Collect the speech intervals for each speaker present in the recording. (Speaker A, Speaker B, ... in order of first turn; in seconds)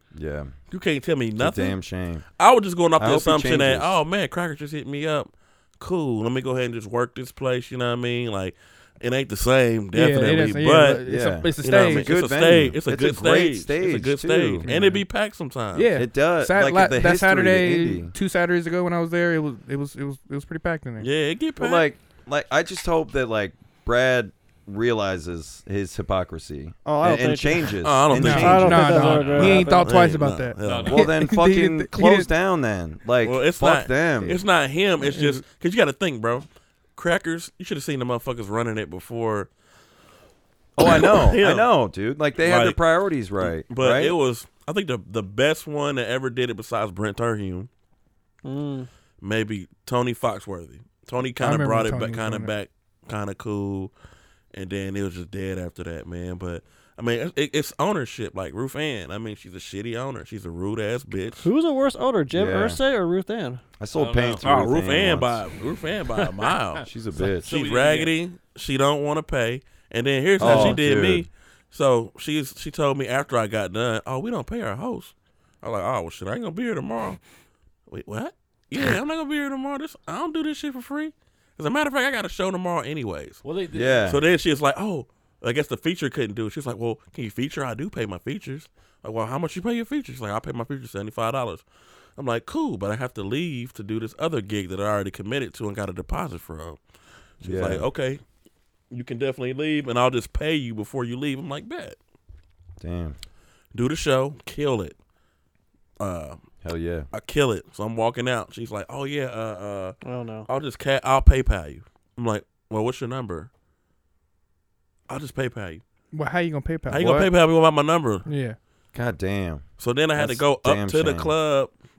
Speaker A: 0.1-0.5, 1.4-2.2, 3.0-4.0, 11.0-14.7, 15.9-18.1, 21.6-29.0, 30.9-34.4, 40.8-44.1, 62.3-62.8, 63.8-65.4, 66.8-67.5, 70.4-71.3, 83.7-84.2, 97.4-97.9, 102.8-103.2, 106.6-107.1, 118.9-121.3
Speaker B: 0.7-1.8, 2.4-11.0, 11.6-16.0, 21.0-21.9, 27.8-31.0, 33.2-39.5, 40.8-41.7, 42.4-42.8, 43.4-47.7, 49.2-53.9, 54.5-61.5, 64.4-66.8, 67.4-77.2, 77.9-83.4, 84.1-91.6, 92.2-96.8, 97.4-98.2, 98.9-102.0, 103.7-105.0, 106.0-106.4, 107.1-113.5, 115.1-115.8, 116.9-118.3, 119.8-121.7
Speaker C: 9.9-12.1, 14.7-15.0, 15.7-21.1, 28.1-32.3, 35.0-35.4, 51.4-52.5, 116.1-117.3, 118.2-118.6
Speaker D: 26.8-29.9, 48.4-48.9, 61.4-63.6, 70.5-70.7, 110.0-110.5
Speaker E: 28.9-29.8, 30.6-31.1, 63.9-64.5, 66.2-68.1, 83.4-84.2